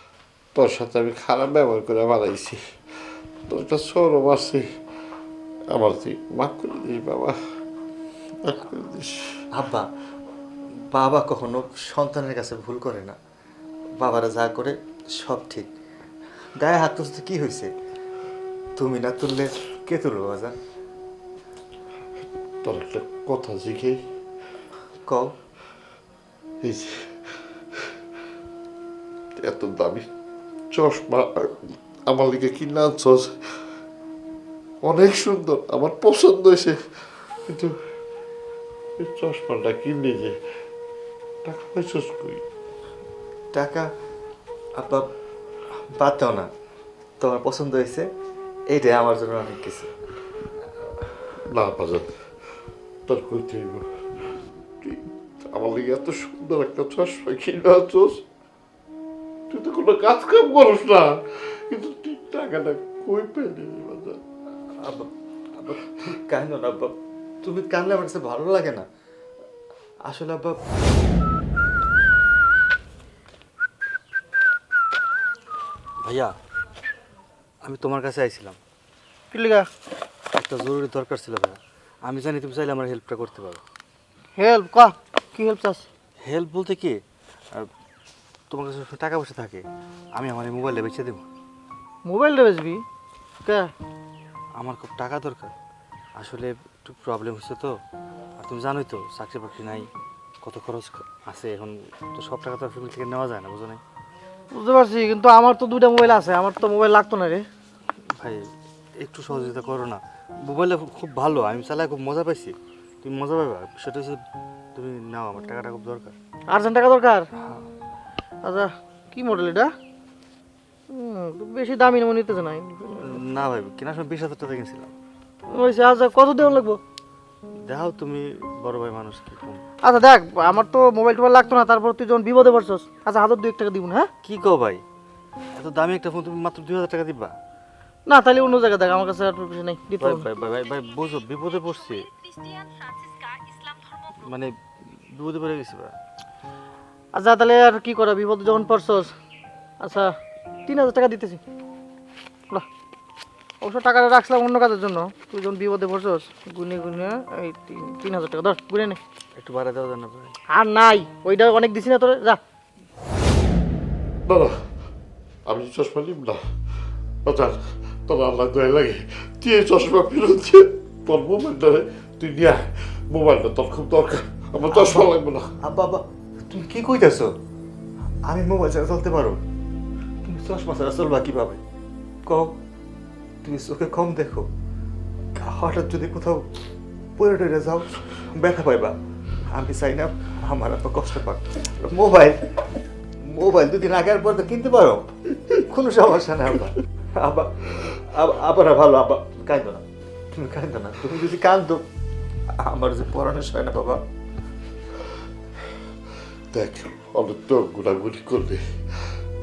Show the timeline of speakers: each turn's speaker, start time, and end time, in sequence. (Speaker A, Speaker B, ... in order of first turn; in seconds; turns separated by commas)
Speaker A: 0.5-4.6, Speaker A: 5.7-7.3, Speaker A: 8.4-9.4, Speaker B: 9.5-9.9, Speaker B: 10.9-13.2, Speaker B: 14.0-15.7, Speaker B: 16.6-17.7, Speaker B: 18.8-20.6, Speaker A: 22.6-24.0, Speaker A: 26.6-27.3, Speaker A: 29.4-30.1, Speaker A: 30.7-33.6, Speaker A: 34.8-37.7, Speaker A: 39.0-40.3, Speaker A: 41.4-42.4, Speaker B: 43.5-43.9, Speaker B: 44.8-45.0, Speaker B: 46.0-46.5, Speaker B: 47.2-48.0, Speaker B: 48.7-49.9, Speaker A: 51.5-52.1, Speaker A: 53.1-53.8, Speaker A: 54.8-58.2, Speaker A: 59.5-64.2, Speaker B: 65.6-66.9, Speaker B: 67.4-68.8, Speaker B: 70.1-70.5, Speaker B: 76.0-76.3, Speaker B: 77.6-78.6, Speaker C: 79.3-79.7, Speaker B: 80.3-83.6, Speaker C: 84.3-85.8, Speaker B: 86.2-87.0, Speaker B: 88.5-89.6, Speaker B: 90.2-91.2, Speaker C: 92.0-92.8, Speaker C: 93.4-93.7, Speaker B: 94.6-95.5, Speaker B: 96.2-97.7, Speaker B: 98.4-99.9, Speaker B: 100.4-103.8, Speaker C: 104.5-107.5, Speaker B: 108.2-108.4, Speaker B: 109.0-114.2, Speaker B: 114.7-116.2, Speaker C: 116.5-117.3, Speaker C: 118.4-119.7, Speaker C: 120.9-123.1, Speaker B: 123.0-124.9, Speaker C: 125.5-126.8, Speaker B: 127.6-129.6, Speaker C: 129.8-134.1, Speaker B: 134.2-134.8, Speaker B: 135.5-137.3, Speaker C: 138.1-140.3, Speaker B: 140.0-142.1, Speaker B: 144.2-145.9, Speaker C: 147.1-149.1, Speaker C: 149.8-151.4, Speaker C: 153.6-159.0, Speaker B: 159.4-160.4, Speaker C: 160.5-162.4, Speaker A: 164.2-164.5, Speaker A: 165.5-166.4, Speaker A: 167.2-175.4, Speaker B: 174.7-177.3, Speaker B: 178.3-179.4, Speaker B: 180.2-181.6, Speaker B: 182.2-182.5, Speaker B: 183.4-184.5, Speaker B: 185.4-186.4, Speaker B: 187.2-188.9, Speaker B: 189.5-192.4, Speaker B: 193.2-199.8, Speaker B: 200.3-201.8, Speaker B: 202.6-204.0, Speaker A: 206.5-209.1